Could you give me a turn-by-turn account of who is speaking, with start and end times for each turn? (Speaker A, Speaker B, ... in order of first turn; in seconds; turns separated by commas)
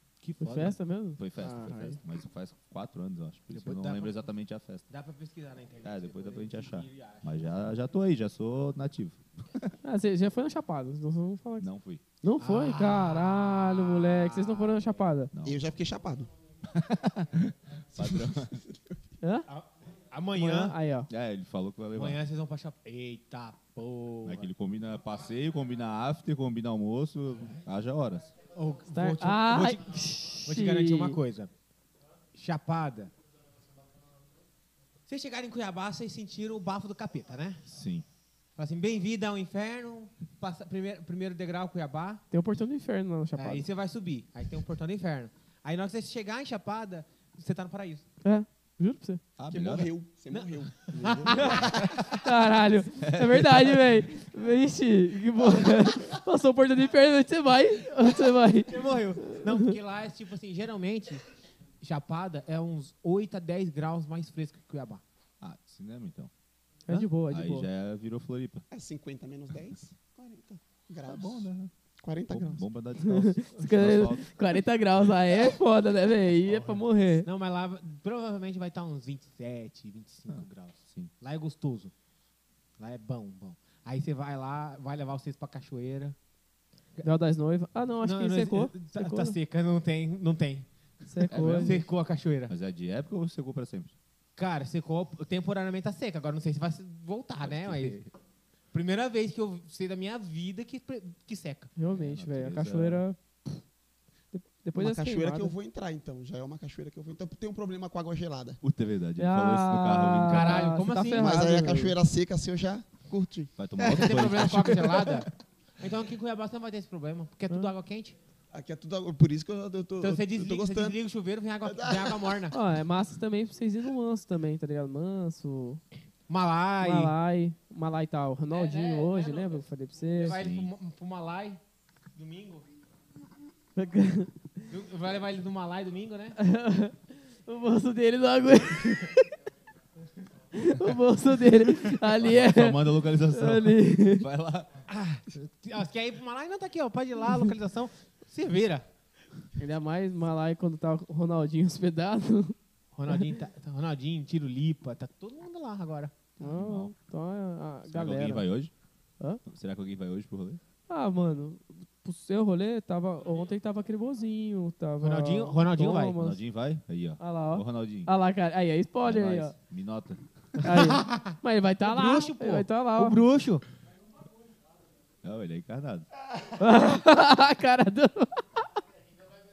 Speaker A: 0.2-0.8, Speaker B: 0.4-2.0, Speaker C: 1.2-4.9, Speaker A: 3.5-4.3, Speaker A: 4.9-7.5, Speaker C: 5.8-9.8, Speaker B: 9.8-11.7, Speaker C: 11.6-12.0, Speaker B: 12.2-15.3, Speaker A: 12.4-15.0, Speaker C: 15.3-15.6, Speaker D: 15.4-16.3, Speaker C: 16.7-18.6, Speaker D: 17.9-19.0, Speaker B: 19.2-19.5, Speaker A: 19.5-20.8, Speaker B: 20.4-21.1, Speaker C: 21.1-22.2, Speaker A: 21.9-24.5, Speaker C: 24.2-28.3, Speaker A: 28.6-31.5, Speaker B: 28.9-31.2, Speaker A: 32.3-33.1, Speaker A: 35.1-37.6, Speaker C: 37.7-38.0, Speaker A: 38.6-42.2, Speaker B: 42.3-43.7, Speaker A: 43.4-48.0, Speaker B: 48.2-49.2, Speaker C: 49.4-49.9, Speaker D: 49.5-51.9, Speaker A: 50.3-51.8, Speaker C: 51.4-52.0, Speaker B: 52.0-59.7, Speaker C: 53.0-53.8, Speaker A: 58.7-61.2, Speaker A: 61.8-65.0, Speaker C: 65.4-66.3, Speaker B: 66.9-67.7, Speaker C: 66.9-68.7, Speaker D: 68.7-71.5, Speaker C: 71.1-71.7, Speaker D: 72.0-72.6, Speaker C: 72.3-74.4, Speaker B: 73.0-77.3, Speaker A: 76.7-81.9, Speaker C: 80.3-81.1, Speaker A: 82.8-86.2, Speaker B: 87.0-89.4, Speaker A: 88.0-90.7, Speaker B: 91.0-91.8, Speaker C: 91.3-91.9, Speaker A: 91.3-92.5, Speaker C: 92.5-93.9, Speaker A: 94.4-98.0, Speaker C: 97.4-98.1, Speaker A: 98.7-101.7, Speaker B: 101.8-103.6, Speaker C: 101.9-103.0, Speaker B: 104.3-105.5, Speaker D: 104.8-108.6, Speaker C: 108.6-110.8, Speaker B: 109.2-112.0, Speaker A: 110.3-111.5, Speaker D: 111.1-114.3, Speaker C: 113.6-115.2, Speaker A: 113.8-118.2, Speaker D: 118.5-121.0, Speaker A: 120.0-122.6, Speaker D: 121.6-122.4, Speaker B: 122.5-125.8, Speaker A: 126.3-127.1, Speaker B: 126.8-130.4, Speaker A: 128.5-129.6, Speaker A: 130.2-131.6, Speaker C: 130.3-130.7, Speaker A: 132.2-132.7, Speaker B: 133.8-134.5, Speaker A: 134.7-136.4, Speaker B: 136.4-139.3, Speaker B: 140.5-144.3, Speaker C: 142.0-144.8, Speaker A: 144.9-148.9, Speaker B: 149.6-152.6, Speaker A: 153.0-156.1, Speaker B: 156.4-158.5, Speaker C: 156.4-156.9, Speaker C: 157.9-158.7, Speaker C: 159.5-160.6, Speaker B: 160.9-166.4, Speaker A: 165.0-166.2, Speaker C: 166.1-168.1, Speaker B: 167.2-169.6, Speaker C: 169.0-170.6, Speaker B: 170.6-173.2, Speaker A: 170.6-173.6, Speaker C: 175.2-176.1, Speaker B: 176.6-178.7